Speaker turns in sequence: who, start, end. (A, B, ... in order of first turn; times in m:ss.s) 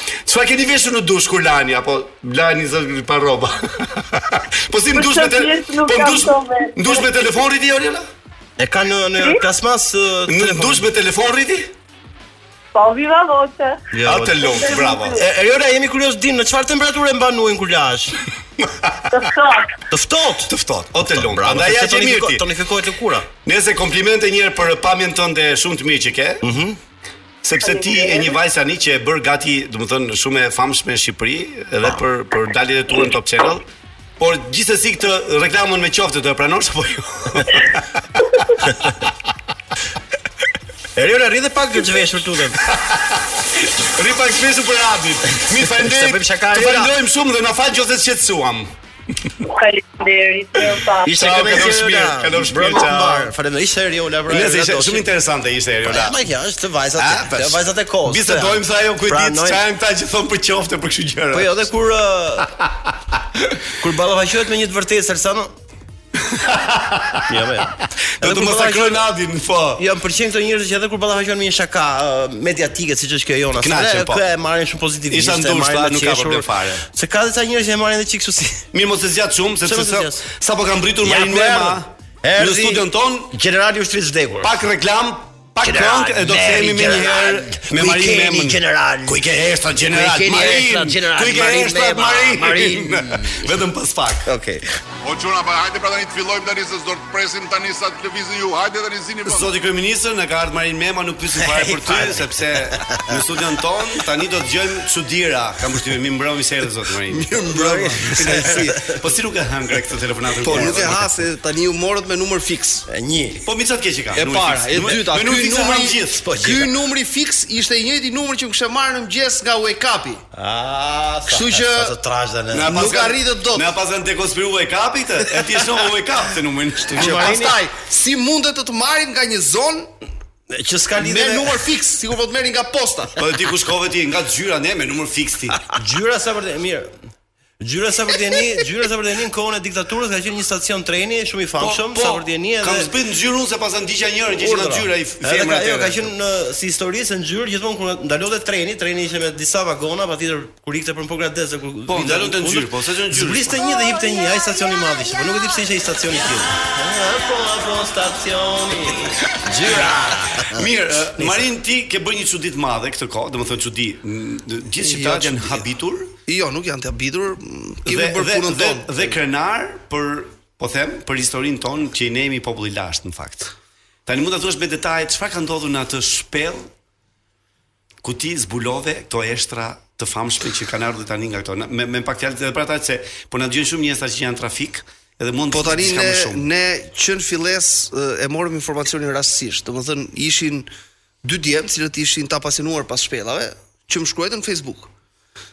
0:00.1-0:08.1 A
0:04.9-0:07.2 B
0:08.6-0:10.9 C
0:09.2-0:09.4 B
0:10.3-0:11.7 A
0:12.7-0:13.9 B
0:13.9-0:18.2 C
0:14.0-0:15.2 A
0:14.4-0:15.2 B
0:18.6-0:19.0 A
0:19.1-0:19.8 B
0:19.9-0:23.3 C
0:20.5-0:22.5 A
0:23.4-0:26.4 A
0:26.4-0:26.8 C
0:27.4-0:33.7 A
0:27.6-0:28.4 B
0:34.2-0:37.9 A
0:41.0-0:42.6 C
0:42.6-0:48.7 A
0:45.6-0:46.9 C
0:49.4-0:51.2 B
0:51.0-0:55.1 C
0:51.1-0:53.3 A
0:54.3-0:56.2 A
0:55.8-0:59.6 C
0:57.0-1:01.7 A
1:01.3-1:02.6 C
1:02.6-1:03.5 A
1:03.8-1:05.5 C
1:06.2-1:07.4 A
1:07.3-1:09.1 C
1:08.2-1:09.8 A
1:09.8-1:18.7 C
1:13.6-1:14.3 A
1:15.1-1:16.8 A
1:18.7-1:23.4 A
1:19.6-1:20.3 C
1:21.0-1:24.5 C
1:24.4-1:34.3 A
1:25.6-1:29.3 C
1:29.8-1:33.5 C
1:34.2-1:34.6 C
1:35.0-1:39.5 D
1:39.3-1:51.1 A
1:41.4-1:43.1 C
1:47.1-1:48.8 E
1:47.5-1:49.0 C
1:50.4-1:52.9 E
1:50.5-1:51.0 C
1:52.9-1:53.5 C
1:53.4-1:56.2 A
1:54.1-2:00.2 E
1:56.2-1:56.7 C
2:00.3-2:02.9 C
2:01.3-2:02.0 E
2:02.5-2:07.4 A
2:02.6-2:03.7 E
2:06.9-2:07.6 C
2:06.9-2:09.9 E
2:10.5-2:11.6 C
2:11.0-2:13.2 E
2:13.2-2:15.7 A
2:15.7-2:16.9 C
2:17.6-2:22.9 C
2:21.6-2:26.1 A
2:24.4-2:40.6 C
2:31.9-2:33.6 A
2:40.5-2:46.1 A
2:44.8-2:45.7 E
2:46.2-2:49.2 E
2:47.9-2:53.5 A
2:54.1-2:56.7 A
2:58.0-3:06.4 A
3:05.5-3:10.7 E
3:11.2-3:14.9 E